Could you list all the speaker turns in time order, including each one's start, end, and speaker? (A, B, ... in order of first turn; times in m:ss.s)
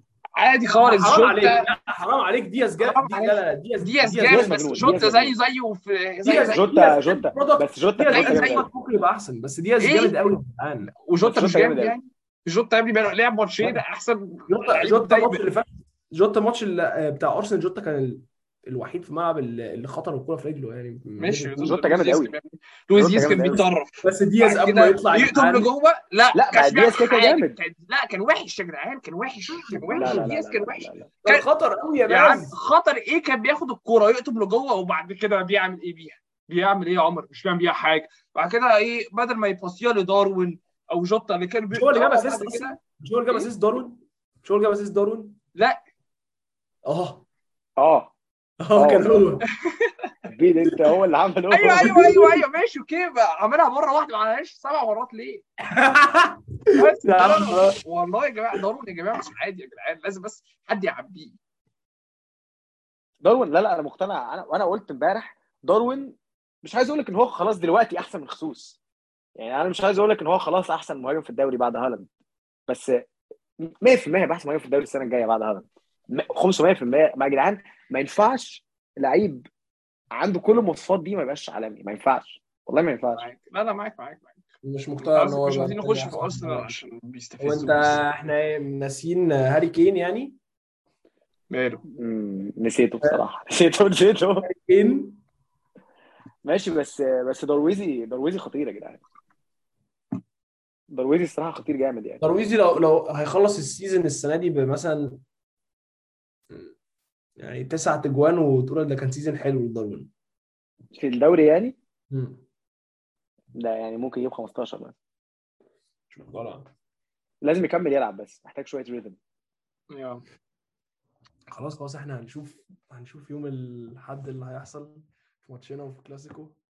0:00.4-0:01.7 A
0:00.8-0:05.1 B
0:02.8-0:06.6 A
0:04.3-0:05.3 C
0:06.2-0:11.0 B
0:06.4-0:08.7 C
0:08.1-0:08.6 A
0:09.8-0:10.3 A
0:11.1-0:15.4 A
0:11.2-0:12.0 C
0:14.5-0:21.8 B
0:21.2-0:31.4 A
0:21.6-0:22.3 C
0:22.9-0:23.6 C
0:23.1-0:25.7 B
0:26.3-0:27.6 C
0:29.5-0:30.3 B
0:30.0-0:31.1 C
0:31.2-0:32.5 B
0:32.1-0:42.8 A
0:41.7-0:45.4 B
0:46.8-0:47.2 B
0:47.8-0:48.1 C
0:48.6-0:49.4 B
0:48.8-0:49.4 C
0:49.7-0:50.1 A
0:50.3-0:52.1 C
0:51.5-0:55.4 A
0:51.8-0:52.4 B
0:55.6-0:57.8 B
0:56.8-1:01.4 A
1:03.2-1:08.8 C
1:09.4-1:12.1 C
1:13.6-1:19.5 C
1:20.1-1:23.3 C
1:23.2-1:24.5 A
1:24.6-1:26.8 B
1:25.0-1:28.0 A
1:27.4-1:30.4 B
1:31.5-1:31.8 A
1:32.0-1:34.5 C
1:34.4-1:35.2 B
1:36.4-1:39.0 C
1:40.9-1:42.3 C
1:42.2-1:45.2 B
1:47.4-1:50.1 B
1:51.0-1:51.8 C
1:52.1-1:52.4 B
1:53.6-1:55.0 C
1:56.1-1:56.7 B
1:57.4-1:59.2 C
1:59.9-2:00.2 A
2:01.5-2:06.6 B